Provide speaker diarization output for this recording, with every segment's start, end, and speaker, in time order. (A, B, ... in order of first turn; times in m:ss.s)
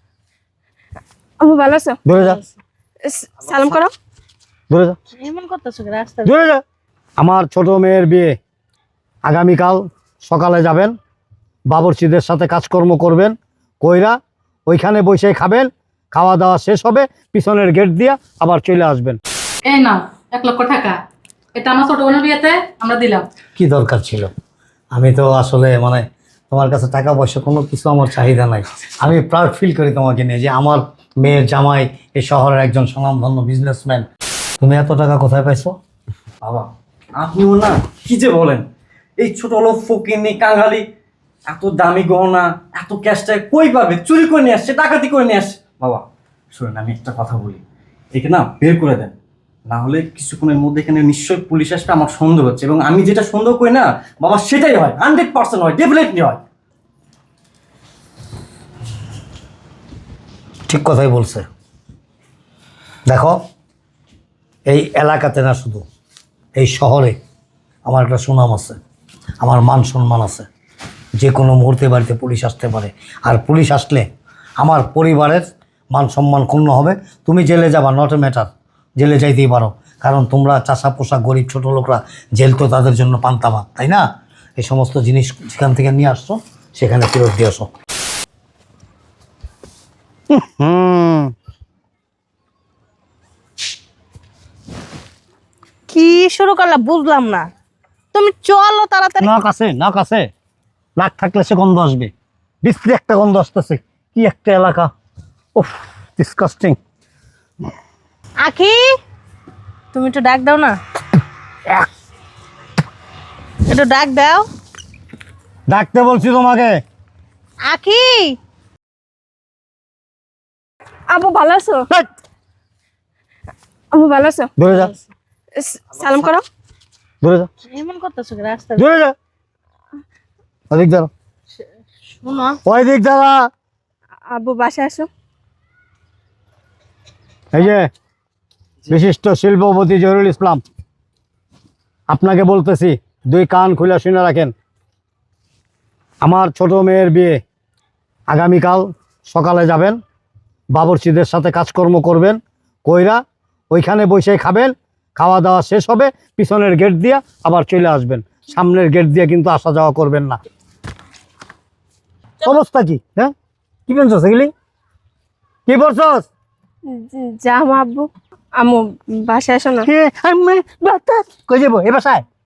0:01.4-0:02.0 A
0:02.0-0:02.4 B
0:02.2-0:02.6 C
0:03.0-0:03.9 A
0:04.7-0:05.0 B
0:05.1-0:06.4 C
0:06.2-0:06.6 B
0:07.2-0:08.4 B
0:09.2-0:10.9 B
0:11.7-0:14.2 B
0:14.7-0:19.2 B
0:19.6-0:21.0 D
0:21.6-0:23.2 D
0:23.6-0:24.3 B
0:24.9-0:34.1 B
0:34.6-0:35.7 B
0:36.4-0:38.6 E
0:39.2-0:40.8 E
0:41.5-0:47.6 E
0:48.1-0:49.1 E
0:49.7-0:56.4 E
1:00.7-1:01.4 B
1:03.1-1:03.4 B
1:04.7-1:05.8 B
1:06.6-1:07.2 B
1:07.8-1:08.8 B
1:09.4-1:10.4 B
1:11.2-1:14.0 B
1:14.6-1:24.0 B
1:24.6-1:27.7 B
1:30.3-1:31.3 B
1:35.9-1:37.5 C
1:38.1-1:39.3 C
1:39.2-1:40.3 B
1:41.0-1:44.9 B
1:45.5-1:46.8 B
1:48.4-1:48.9 C
1:49.9-1:50.8 C
1:53.6-1:54.5 C
1:55.7-1:56.8 B
1:57.6-1:58.4 C
2:01.1-2:01.9 A
2:03.9-2:04.5 A
2:04.6-2:04.9 B
2:04.7-2:05.0 C
2:05.6-2:06.4 A
2:07.2-2:07.5 B
2:07.6-2:08.9 C
2:08.8-2:09.1 B
2:10.7-2:11.1 B
2:12.1-2:12.6 C
2:12.6-2:13.4 B
2:14.3-2:15.1 A
2:17.5-2:17.9 B
2:18.9-2:20.6 B
2:22.1-2:24.5 B
2:26.2-2:27.4 B
2:28.3-2:30.0 B
2:30.7-2:40.4 B
2:42.4-2:43.3 B
2:43.9-2:44.5 B
2:45.7-2:46.3 B
2:46.9-2:49.9 A
2:49.8-2:52.2 B